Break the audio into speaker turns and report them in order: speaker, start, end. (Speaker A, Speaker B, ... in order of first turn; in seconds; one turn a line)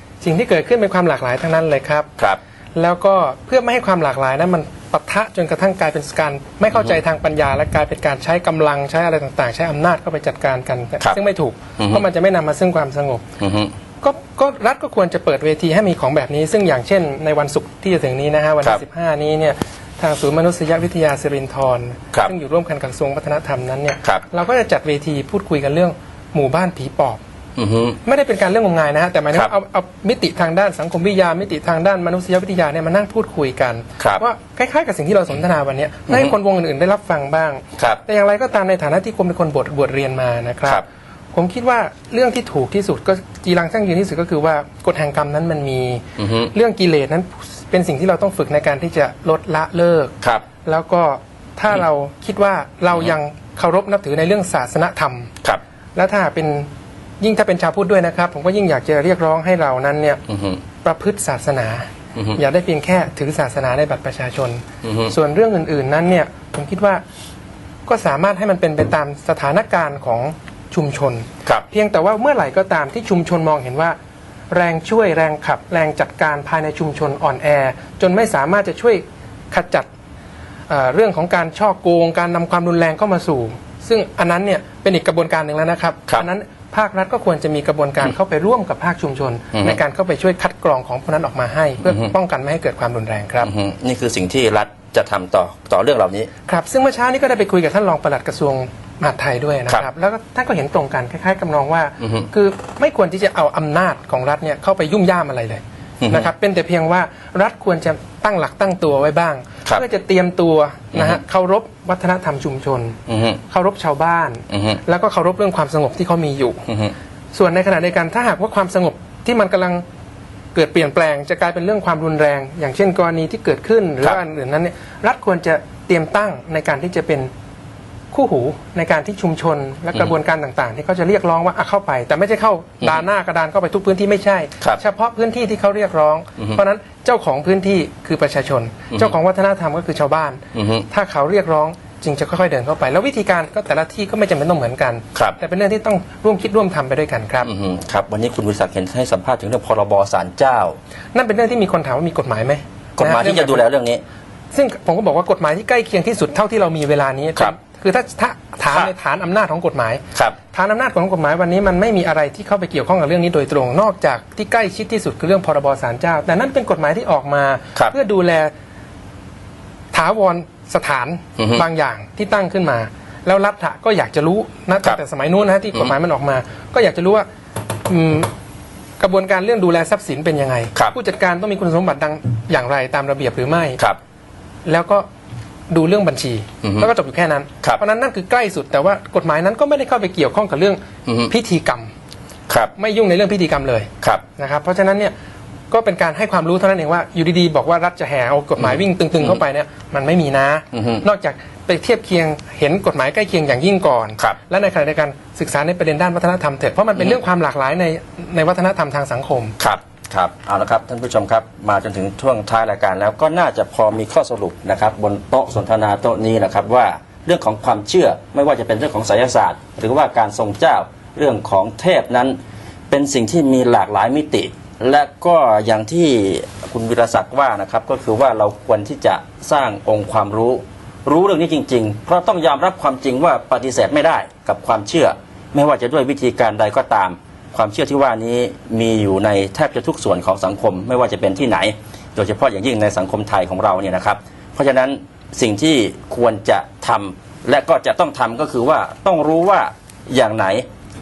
Speaker A: 0.2-2.1
Speaker A: 2.8-13.2
Speaker B: 11.8-12.0
Speaker B: 13.4-13.7
Speaker A: 14.0-27.2
Speaker B: 27.6-28.0
Speaker A: 28.0-55.3
Speaker B: 46.2-46.5
Speaker A: 56.0-56.7
Speaker A: 57.2-60.2
Speaker B: 60.3-60.6
Speaker A: 60.8-67.0
Speaker B: 64.8-65.1
Speaker A: 67.9-74.0
Speaker A: 74.5-79.9
Speaker A: 80.7-93.5
Speaker B: 89.5-89.8
Speaker B: 93.4-96.3
Speaker A: 96.5-116.7
Speaker B: 102.0-102.3
Speaker B: 106.0-106.3
Speaker B: 110.9-111.2
Speaker B: 113.1-113.4
Speaker B: 114.5-114.8
Speaker B: 116.7-116.9
Speaker A: 117.3-119.8
Speaker A: 120.5-127.3
Speaker A: 128.1-147.5
Speaker B: 140.5-140.8
Speaker B: 147.4-150.8
Speaker A: 151.1-153.6
Speaker B: 153.0-154.0
Speaker A: 154.5-168.5
Speaker A: 169.9-177.2
Speaker B: 171.4-171.6
Speaker A: 177.9-178.3
Speaker A: 179.0-183.8
Speaker A: 184.7-185.1
Speaker A: 185.7-191.9
Speaker B: 186.6-186.9
Speaker B: 191.1-191.3
Speaker A: 192.8-195.1
Speaker A: 195.7-209.5
Speaker B: 198.6-199.4
Speaker B: 200.7-201.0
Speaker B: 209.6-222.4
Speaker B: 222.9-250.6